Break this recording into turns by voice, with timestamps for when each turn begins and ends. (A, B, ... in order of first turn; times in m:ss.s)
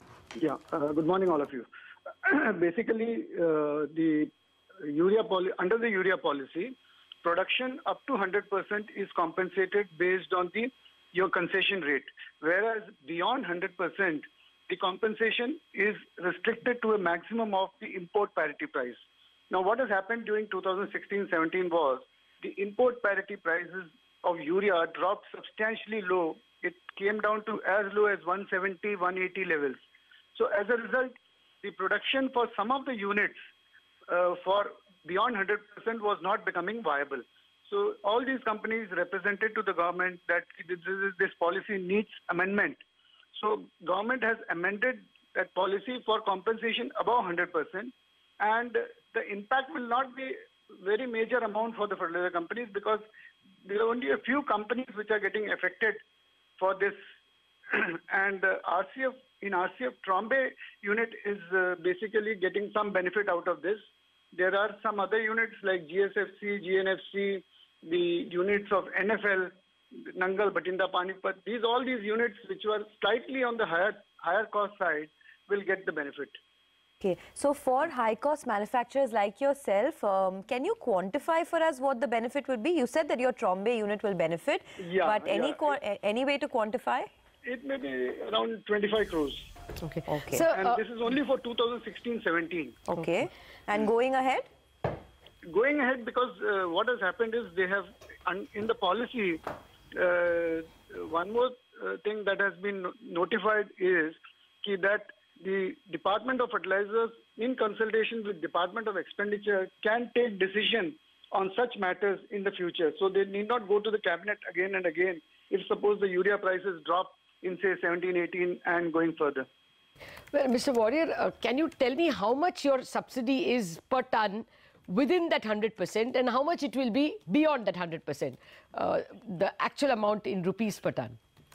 0:00.4-0:01.7 A
0:02.2-0:04.3 A
0:04.8-0:19.0 A
0:19.5-0:29.8 A
0:30.3-0:33.4 A
0:34.1-0:42.8 A
0:43.3-0:53.0 A
0:53.6-0:56.0 A
0:56.6-0:57.0 A
0:57.7-1:16.4 A
1:17.0-1:27.1 B
1:24.8-1:25.8 A
1:27.4-1:29.5 A
1:29.8-1:30.8 C
1:30.1-1:30.4 B
1:30.5-1:32.8 A
1:32.9-1:34.5 B
1:35.4-1:39.4 A
1:39.9-1:59.5 A
2:00.3-2:11.2 C